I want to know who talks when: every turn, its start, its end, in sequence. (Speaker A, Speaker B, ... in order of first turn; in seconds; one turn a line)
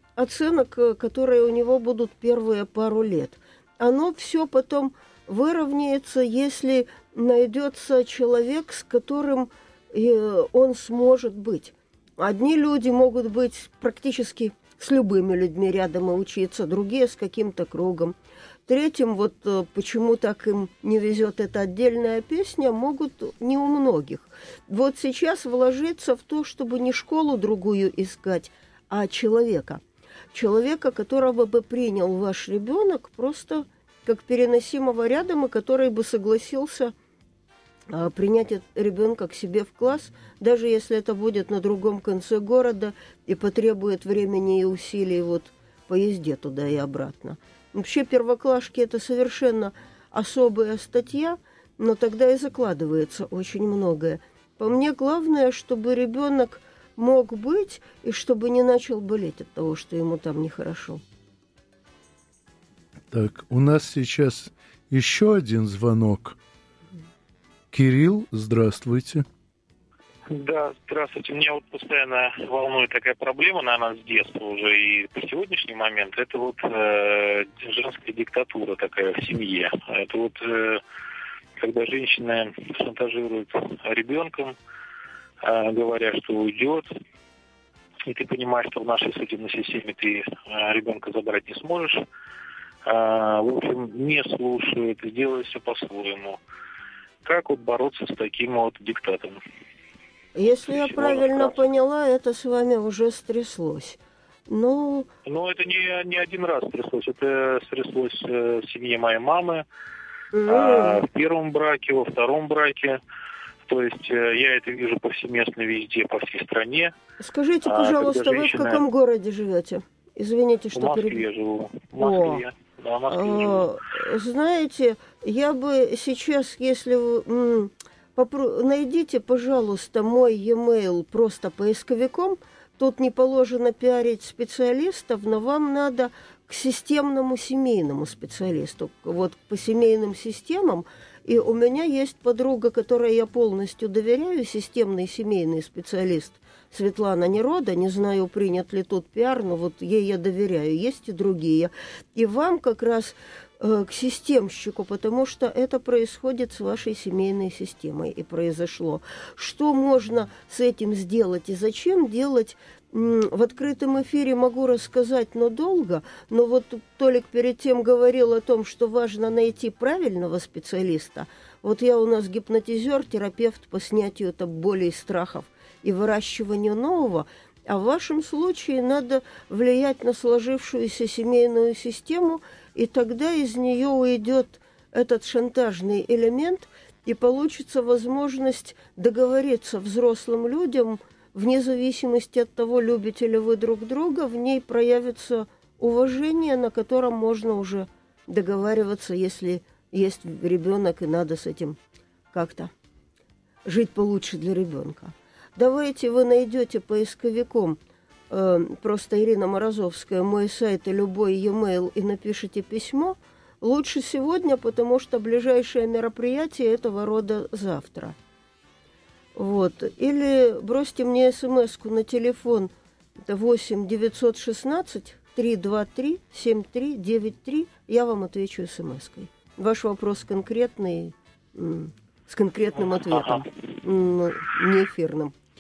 Speaker A: 0.2-18.1
Speaker A: 18.7-29.8
Speaker A: 30.3-36.9
Speaker A: 37.9-61.0
Speaker B: 63.1-66.4
Speaker B: 67.7-69.2
Speaker C: 70.3-80.8
Speaker C: 81.6-84.6
Speaker C: 85.4-86.9
Speaker C: 88.1-92.0
Speaker C: 92.8-96.4
Speaker C: 97.2-99.4
Speaker A: 100.3-105.1
Speaker C: 100.5-101.8
Speaker C: 105.3-109.6
Speaker A: 110.3-111.0
Speaker C: 110.5-113.0
Speaker C: 113.7-116.9
Speaker A: 117.2-121.2
Speaker C: 117.7-118.8
Speaker C: 120.7-123.7
Speaker A: 122.0-122.4
Speaker A: 123.1-201.8
Speaker A: 202.3-202.7
Speaker A: 203.7-207.8
Speaker A: 208.3-218.2
Speaker A: 219.3-222.7
Speaker A: 223.3-235.3
Speaker C: 232.9-233.4